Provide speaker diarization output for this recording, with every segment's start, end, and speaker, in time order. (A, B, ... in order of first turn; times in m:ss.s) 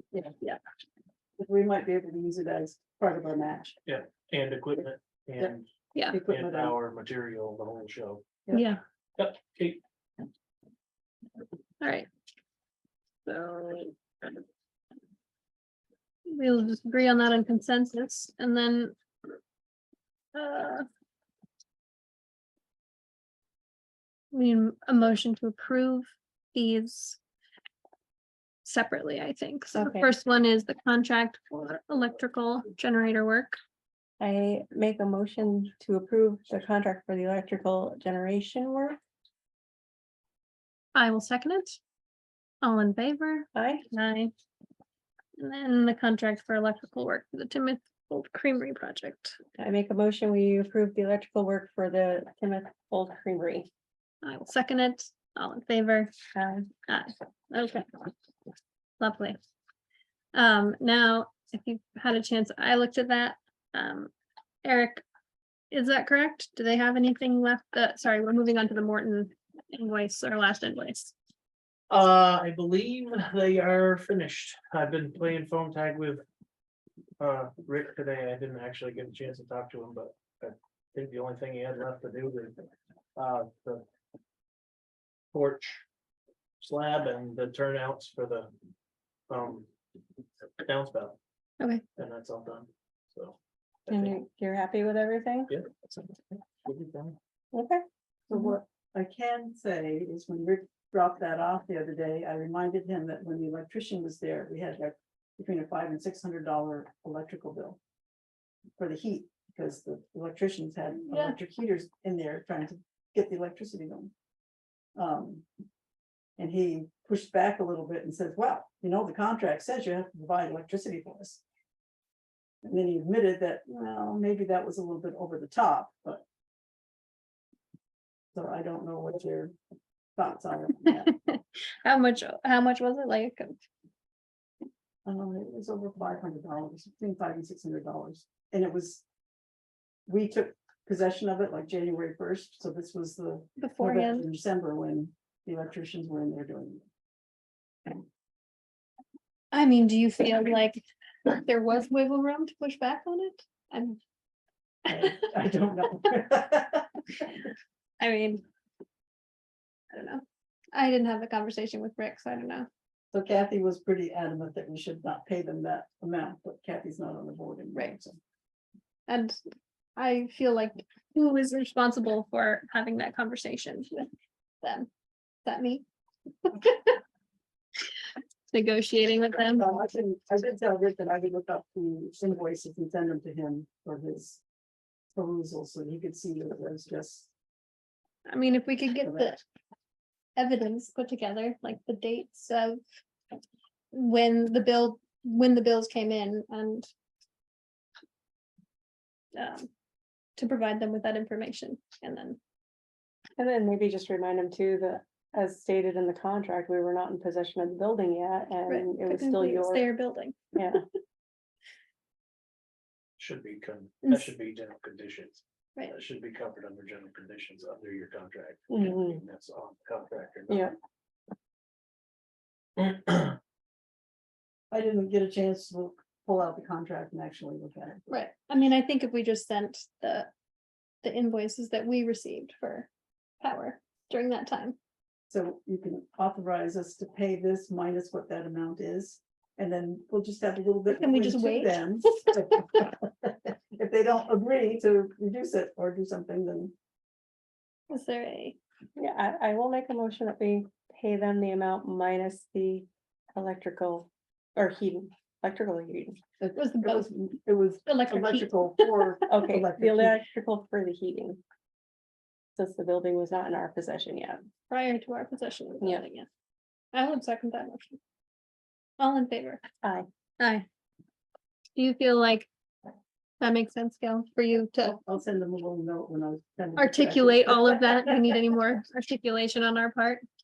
0:01.4-0:03.8 A
0:03.8-0:08.3 B
0:06.1-0:06.8 A
0:08.5-0:08.8 C
0:09.2-0:09.8 B
0:11.8-0:12.1 C
0:13.2-0:13.9 C
0:16.3-0:18.9 C
0:20.3-0:20.9 C
0:24.3-0:27.2 C
0:28.6-0:33.6 C
0:29.7-0:30.1 D
0:34.2-0:39.0 D
0:40.9-0:41.8 C
0:42.6-0:44.3 C
0:43.5-0:43.9 D
0:45.4-0:49.4 C
0:49.6-0:53.7 D
0:54.2-0:56.1 C
0:56.3-0:56.7 D
0:56.8-0:57.9 C
0:59.0-0:59.4 C
1:00.3-1:04.1 C
1:04.6-1:05.0 C
1:05.7-1:11.1 C
1:11.9-1:16.2 B
1:17.2-1:22.6 B
1:23.2-1:23.8 B
1:25.3-1:25.8 B
1:26.6-1:28.5 B
1:29.3-1:29.7 B
1:30.6-1:31.2 B
1:32.0-1:34.2 B
1:33.9-1:35.5 D
1:35.5-1:37.2 B
1:37.5-1:37.8 D
1:38.3-1:47.8 A
1:48.8-1:54.1 A
1:51.0-1:51.4 C
1:55.0-1:55.4 A
1:56.4-2:01.4 A
2:02.6-2:06.2 A
2:08.3-2:09.5 A
2:10.2-2:11.1 A
2:10.9-2:13.6 C
2:15.0-2:19.0 A
2:20.1-2:26.9 A
2:23.6-2:24.3 C
2:29.5-2:34.0 C
2:34.8-2:37.2 A
2:38.0-2:38.4 C
2:39.9-2:42.7 C
2:43.1-2:48.2 A
2:49.1-2:49.4 C
2:50.0-2:54.1 C
2:54.6-2:54.9 C
2:55.4-2:55.8 C
2:56.4-2:57.0 C
2:58.5-2:59.6 C
2:59.6-3:04.4 A
3:05.1-3:07.3 A
3:08.2-3:09.4 C
3:09.0-3:09.4 A
3:10.4-3:12.8 C
3:13.9-3:16.9 C
3:19.3-3:19.6 C
3:20.4-3:22.4 C
3:23.4-3:29.9 D
3:28.7-3:30.6 C
3:30.5-3:30.8 D
3:33.2-3:40.7 B
3:38.7-3:39.2 D
3:40.5-3:40.7 D
3:42.8-3:43.4 B
3:44.7-3:48.0 A
3:48.1-3:50.3 C
3:51.0-3:52.9 C
3:53.4-3:54.8 C
3:55.3-4:06.7 A
4:00.9-4:01.9 C
4:07.9-4:08.6 C
4:09.0-4:16.2 D
4:16.4-4:20.2 A
4:16.6-4:17.1 C
4:17.8-4:19.2 C
4:19.2-4:21.4 D
4:22.6-4:24.5 D
4:24.7-4:26.3 C
4:25.8-4:26.0 D
4:26.9-4:28.0 C
4:29.0-4:29.6 C
4:29.8-4:30.1 D
4:30.4-4:30.6 C
4:31.8-4:32.5 C
4:33.4-4:35.0 C
4:34.8-4:38.4 A
4:36.8-4:40.2 C